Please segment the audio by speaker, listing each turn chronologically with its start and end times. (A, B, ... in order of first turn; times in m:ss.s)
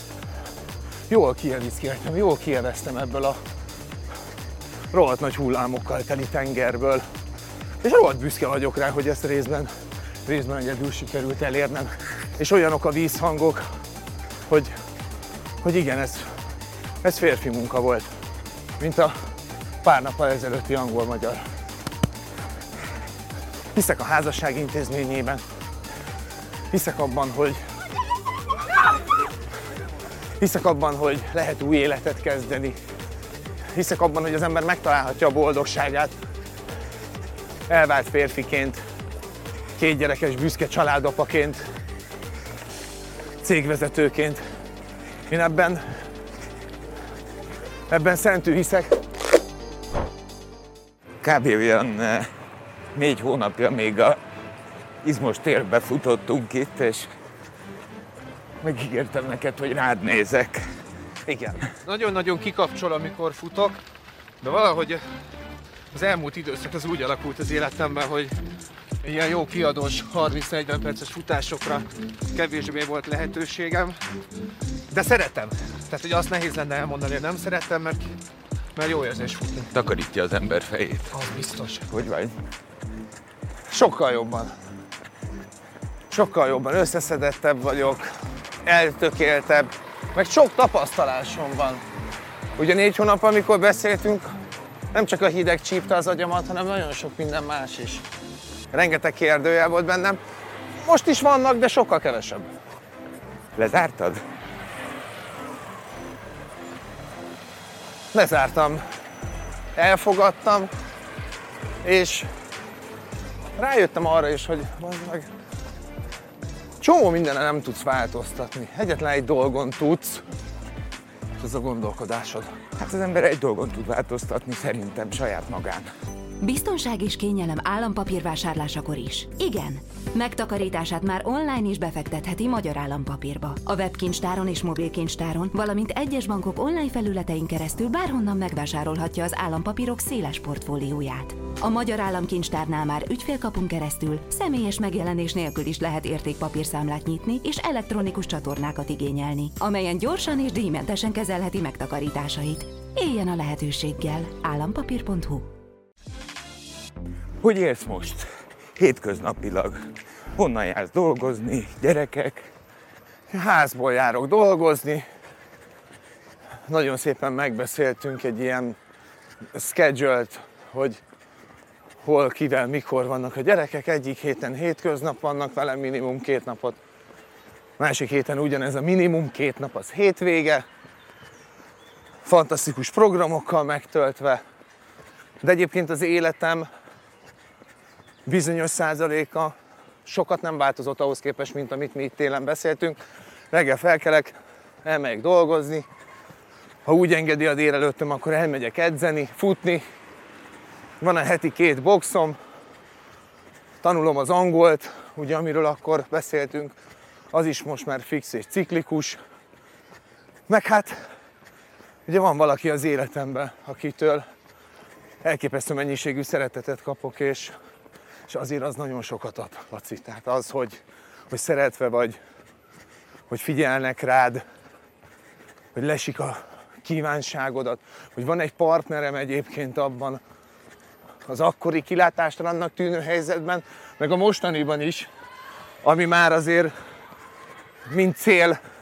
0:01.1-0:03.4 A
0:04.9-0:07.0 A
0:07.8-0:09.7 A
0:10.2-0:13.6 A
0:15.6-0:16.3 A
0:17.0-0:18.1 A
0:18.8-0:19.1 A
0:19.8-0:21.4 A
0:23.7-0:25.4 A
0:26.7-0:27.6 A
0:30.4-0:32.8 A
0:33.7-0:36.1 A
0:37.7-0:38.8 A
0:39.8-0:41.6 A
0:43.4-0:44.4 A
0:45.3-0:45.8 A
0:47.9-0:49.0 A
0:51.2-0:52.3 B
0:52.9-0:54.2 B
0:55.0-0:57.1 B
0:58.6-1:00.7 B
1:01.3-1:03.8 A
1:04.4-1:05.0 A
1:05.9-1:08.3 A
1:09.0-1:14.0 A
1:14.9-1:18.1 A
1:18.8-1:19.7 A
1:19.7-1:21.1 B
1:21.1-1:21.9 A
1:21.9-1:22.3 B
1:23.7-1:24.5 A
1:26.1-1:28.1 A
1:28.6-1:31.8 A
1:32.6-1:34.3 A
1:34.9-1:38.0 A
1:38.7-1:40.2 A
1:40.8-1:42.5 A
1:43.6-1:44.2 B
1:48.1-1:48.8 A
1:49.8-1:50.7 A
1:51.8-1:52.3 A
1:53.6-1:55.3 A
1:56.8-2:00.2 A
2:01.4-2:02.5 A
2:02.8-2:05.9 B
2:06.4-2:35.5 C
2:37.4-2:42.5 B
2:43.3-2:45.0 A
2:46.7-2:48.8 A
2:49.5-2:51.0 A
2:52.0-2:56.8 A
2:57.8-3:00.6 A
3:02.2-3:04.4 A
3:05.4-3:06.7 A
3:08.2-3:09.5 A
3:10.0-3:13.0 A
3:13.5-3:15.8 A
3:16.8-3:19.8 A
3:21.0-3:22.4 A
3:23.8-3:26.7 A
3:27.3-3:29.2 A
3:30.5-3:31.0 A
3:32.1-3:34.2 A
3:35.2-3:37.5 A
3:38.3-3:42.2 A
3:43.3-3:44.4 A
3:45.7-3:50.2 A
3:51.3-3:55.1 A
3:55.8-3:56.7 A
3:57.9-3:58.6 A